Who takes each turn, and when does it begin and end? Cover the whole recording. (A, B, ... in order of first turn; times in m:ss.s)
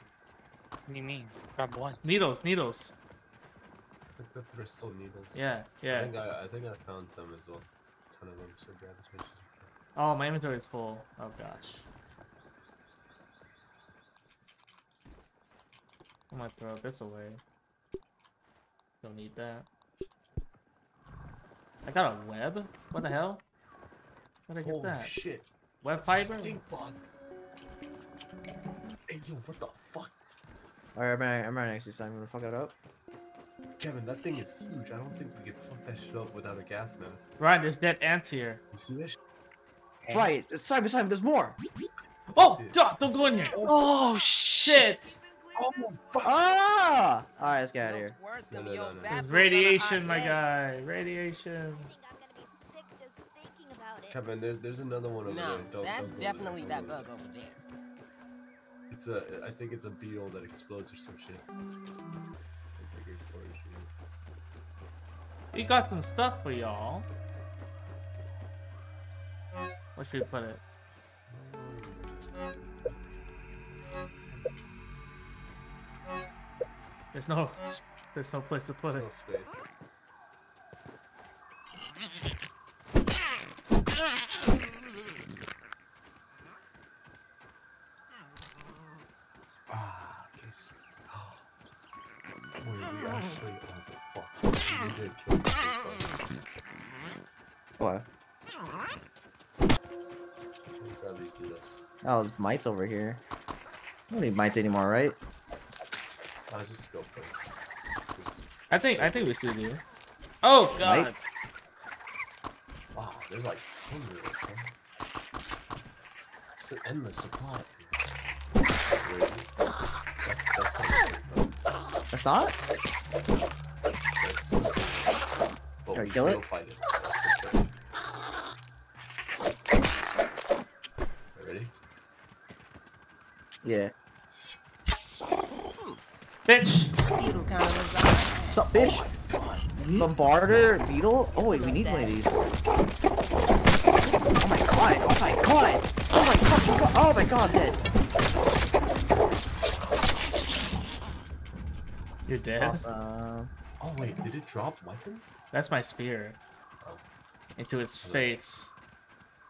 0:00.9-0:02.1 A
0:02.0-0:02.9 B
0:04.1-0:09.7 C
0:05.3-0:06.2 B
0:09.9-0:11.8 B
0:16.3-0:17.4 B
0:19.0-0:19.7 B
0:21.8-0:23.4 B
0:24.5-0:25.2 B
0:24.6-0:27.0 C
0:25.8-0:26.6 B
0:29.1-0:30.1 C
0:30.9-0:32.7 D
0:33.8-0:37.3 C
0:37.4-0:38.6 B
0:38.7-0:39.2 C
0:40.1-0:41.6 D
0:42.3-0:43.5 B
0:42.3-0:43.7 C
0:43.6-0:44.9 A
0:44.6-0:45.2 B
0:45.6-0:46.2 C
0:46.2-0:48.2 D
0:47.7-0:50.4 E
0:48.5-0:50.4 C
0:49.1-0:51.9 B
0:50.1-0:50.4 F
0:51.6-0:54.2 F
0:54.1-0:57.1 C
0:55.2-0:57.6 E
0:58.9-1:01.5 C
1:02.8-1:03.9 C
1:05.5-1:07.1 B
1:10.0-1:10.6 B
1:11.3-1:13.0 C
1:17.1-1:19.1 B
1:18.9-1:19.6 C
1:29.7-1:31.4 C
1:32.6-1:36.2 C
1:37.8-1:38.0 D
1:40.6-1:41.8 C
1:42.0-1:43.2 D
1:44.1-1:45.2 D
1:46.5-1:47.4 C
1:48.1-1:49.4 C
1:48.7-1:49.8 B
1:50.4-1:51.2 B
1:50.7-1:51.3 D
1:52.9-1:54.7 C
1:56.6-1:58.0 C
1:59.0-1:59.5 C
2:00.2-2:01.6 C
2:02.1-2:02.5 D
2:04.2-2:05.2 C
2:05.8-2:07.7 C
2:05.9-2:06.4 D
2:11.3-2:11.7 C
2:13.6-2:13.9 D
2:16.4-2:16.9 B
2:17.1-2:18.6 E
2:18.5-2:19.0 D
2:18.7-2:19.7 C
2:19.9-2:22.4 D
2:21.3-2:22.2 E
2:24.4-2:27.8 D
2:32.2-2:32.8 B
2:32.6-2:33.5 D
2:33.8-2:35.3 C
2:35.5-2:36.4 B
2:37.6-2:38.7 B
2:38.0-2:38.3 C